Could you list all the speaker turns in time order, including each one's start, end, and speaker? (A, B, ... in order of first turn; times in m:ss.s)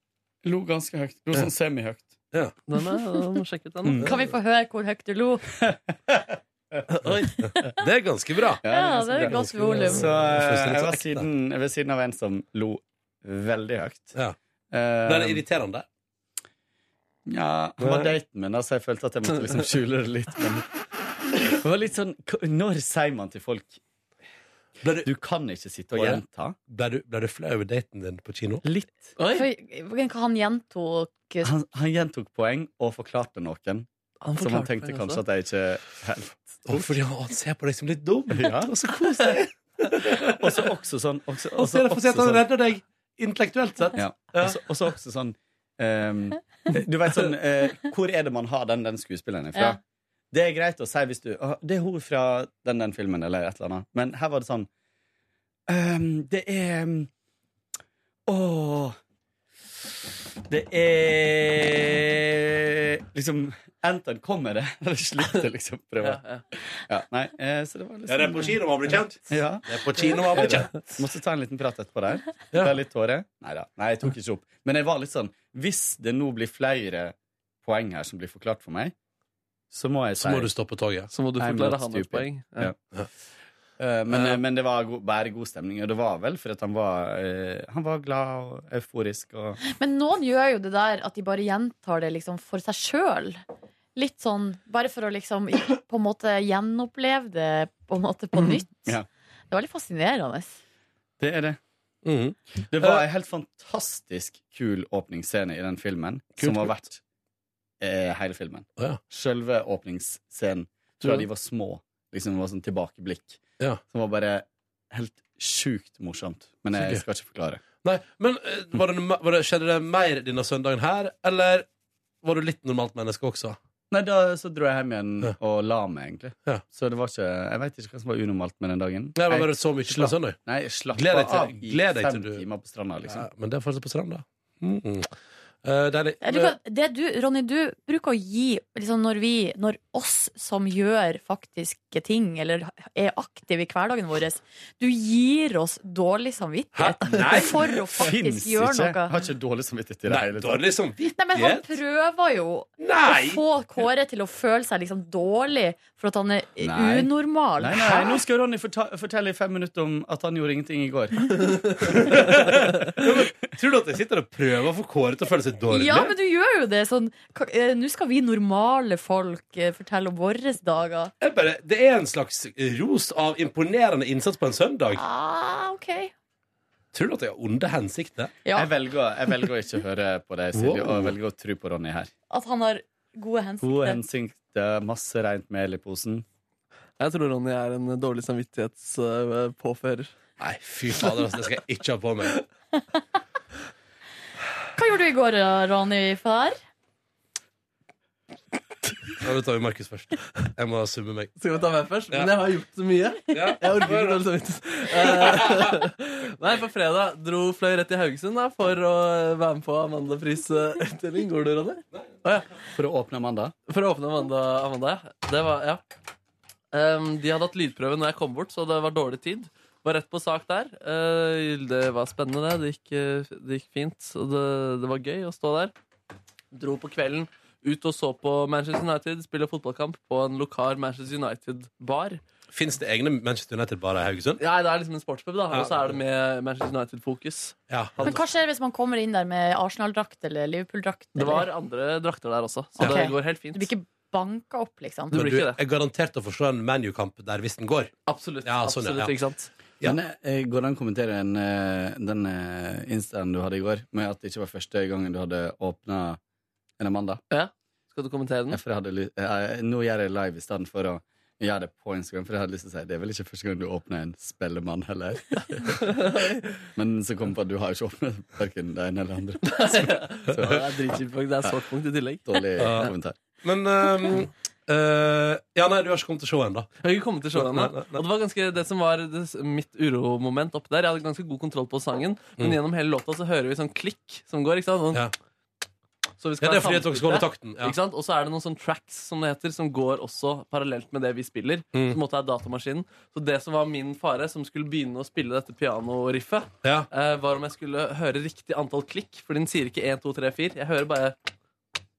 0:00.4-0:02.2 A
0:02.7-0:04.0 B
0:03.8-0:04.2 A
0:04.0-0:05.4 C
0:05.6-0:06.8 A
0:06.9-0:07.3 B
0:07.4-0:08.6 D
0:08.6-0:14.2 A
0:08.7-0:10.1 C
0:09.5-0:11.3 D
0:14.7-0:15.4 A
0:15.0-0:15.8 D
0:17.3-0:20.6 A
0:17.8-0:18.1 D
0:21.5-0:23.8 A
0:24.8-0:25.1 D
0:25.0-0:26.6 A
0:25.9-0:28.6 D
0:28.6-0:29.2 A
0:29.2-0:29.5 B
0:29.3-0:31.5 C
0:31.4-0:37.0 A
0:34.2-0:35.2 B
0:36.7-0:40.6 D
0:38.3-0:38.7 A
0:40.2-0:42.4 A
0:41.6-0:44.6 D
0:43.9-0:49.8 A
0:50.3-0:54.7 A
0:55.7-0:57.1 A
0:58.3-0:59.0 A
1:00.5-1:08.6 A
1:06.0-1:06.4 B
1:08.1-1:11.0 D
1:09.3-1:18.9 A
1:19.7-1:20.5 A
1:20.2-1:21.1 D
1:21.1-1:22.7 B
1:21.4-1:22.8 A
1:23.8-1:29.6 A
1:24.1-1:24.4 D
1:29.6-1:33.4 C
1:34.0-1:38.9 C
1:39.5-1:40.6 C
1:41.2-1:41.6 A
1:42.0-1:43.1 D
1:42.7-1:47.0 A
1:46.4-1:46.8 D
1:47.8-1:57.6 A
1:56.8-1:57.0 D
1:57.8-2:01.7 D
2:02.2-2:03.6 D
2:03.9-2:13.3 A
2:09.2-2:10.4 D
2:10.9-2:12.4 D
2:13.0-2:15.1 D
2:15.6-2:16.6 D
2:16.2-2:29.2 C
2:26.7-2:27.8 D
2:28.0-2:30.6 A
2:30.1-2:31.8 D
2:31.2-2:38.2 C
2:32.8-2:33.4 D
2:36.6-2:41.7 A
2:41.9-2:46.1 D
2:45.7-2:51.1 C
2:51.2-2:55.0 D
2:54.9-2:56.1 C
2:56.9-2:58.3 D
2:58.4-2:58.7 C
2:58.5-3:02.1 A
3:00.5-3:01.2 D
3:02.3-3:04.0 C
3:03.6-3:06.2 A
3:07.0-3:10.1 B
3:10.4-3:12.4 D
3:14.8-3:16.6 C
3:19.2-3:21.3 D
3:21.4-3:32.5 B
3:23.3-3:24.2 D
3:24.9-3:25.8 D
3:32.8-3:33.5 A
3:33.7-3:35.8 B
3:36.7-3:45.7 B
3:46.5-3:52.2 B
3:52.5-3:54.4 D
3:54.4-3:58.1 B
3:55.5-3:55.9 D
3:57.7-3:58.2 D
3:58.0-4:01.5 C
4:01.2-4:03.7 B
4:02.8-4:05.2 C
4:05.1-4:05.6 B
4:05.1-4:07.9 D
4:08.1-4:09.5 B
4:08.4-4:09.2 D
4:09.8-4:16.2 A
4:16.8-4:17.2 A
4:17.3-4:18.6 B
4:18.5-4:25.4 A
4:26.0-4:26.4 B
4:26.8-4:30.7 A
4:29.4-4:32.9 B
4:32.3-4:33.2 A
4:32.6-4:36.7 D
4:36.8-4:45.0 B
4:37.3-4:38.0 D
4:46.2-5:01.2 B
4:46.4-4:47.8 D
4:51.7-4:52.0 D
4:56.6-4:56.9 D